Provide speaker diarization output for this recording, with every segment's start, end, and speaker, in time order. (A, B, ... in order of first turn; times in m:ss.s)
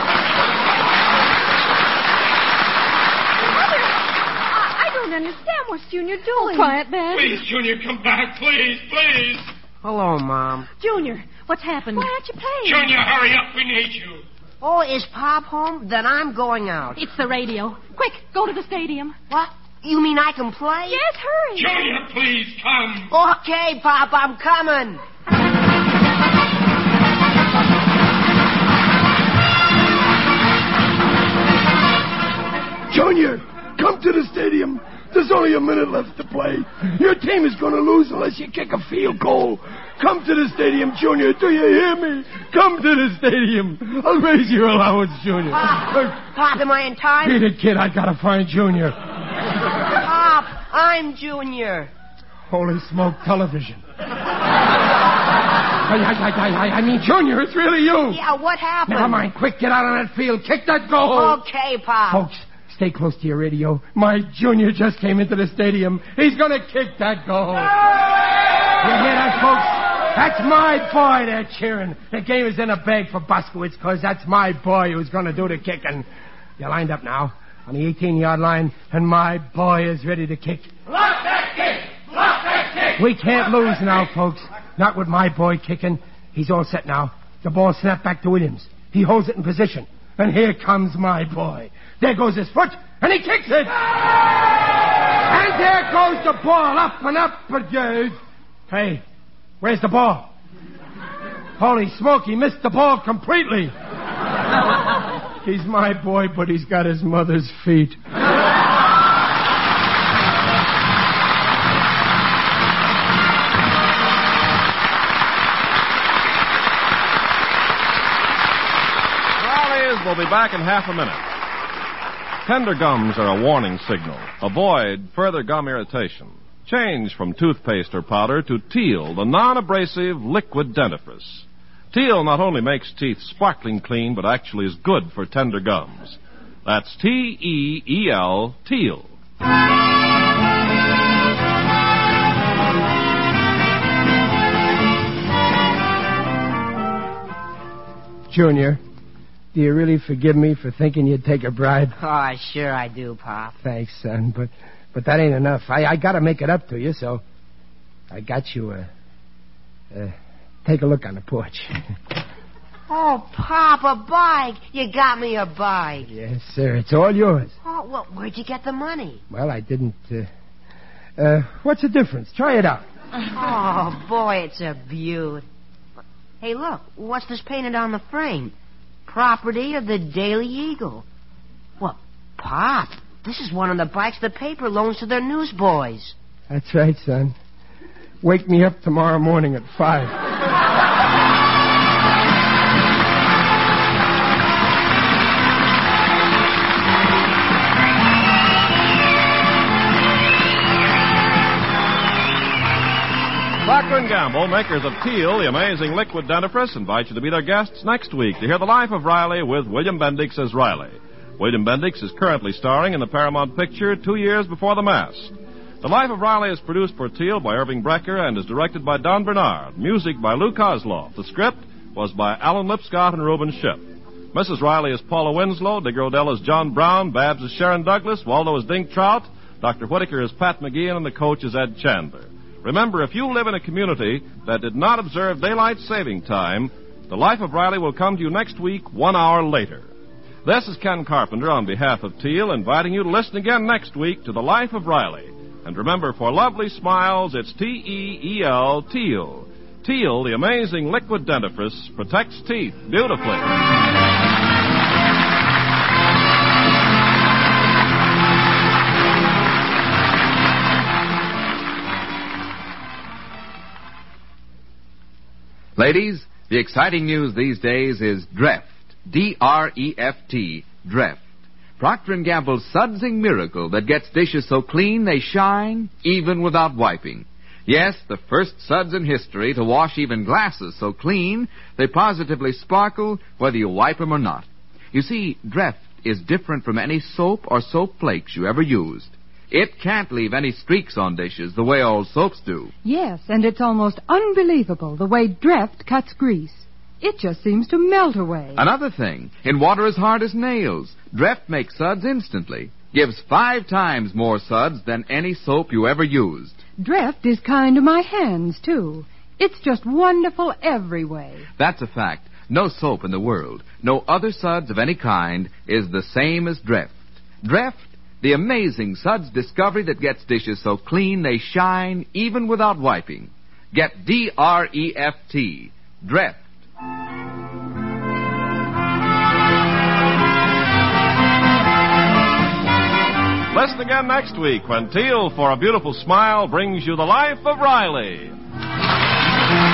0:04.5-0:07.1 A
0:06.3-0:07.3 B
0:07.2-0:09.4 C
0:09.8-0:10.7 D
0:10.8-0:12.9 B
0:11.9-0:12.8 A
0:12.7-0:14.1 C
0:14.6-0:17.0 D
0:16.9-0:19.2 B
0:19.3-0:21.0 D
0:20.9-0:21.7 A
0:21.6-0:23.0 C
0:23.1-0:25.0 D
0:32.9-0:45.7 E
0:45.6-0:47.4 D
0:47.2-0:48.9 E
0:49.9-0:51.9 D
0:52.5-0:53.8 E
0:55.8-0:58.2 E
0:58.1-0:59.3 D
0:58.9-1:01.4 E
1:01.1-1:02.2 D
1:02.1-1:07.8 E
1:08.8-1:16.0 E
1:16.6-1:20.7 E
1:22.9-1:33.8 E
1:35.2-1:38.2 E
1:38.7-1:39.0 E
1:39.6-1:40.3 E
1:41.6-1:43.7 E
1:45.4-1:48.0 E
1:59.4-2:01.2 F
2:02.4-2:19.1 F
2:28.3-2:28.8 E
2:29.5-2:32.0 E
2:32.0-2:33.6 D
2:33.6-2:37.2 E
2:38.1-2:38.9 E
2:39.9-2:41.8 E
2:42.9-2:46.1 D
2:46.0-2:47.5 E
2:47.6-2:49.2 D
2:49.3-2:50.3 E
2:51.2-2:52.8 E
2:53.3-2:55.4 D
2:56.4-2:58.5 D
2:59.1-3:01.0 D
3:01.8-3:06.1 D
3:06.5-3:07.4 E
3:08.2-3:10.2 E
3:23.6-3:43.8 F
3:44.3-3:59.9 F
4:00.4-4:13.5 F
4:25.8-4:31.2 G
4:31.8-4:52.7 G
4:52.8-4:58.6 H
4:58.6-5:06.6 G
5:06.8-5:11.4 H
5:11.6-5:26.4 G
5:33.5-5:38.3 F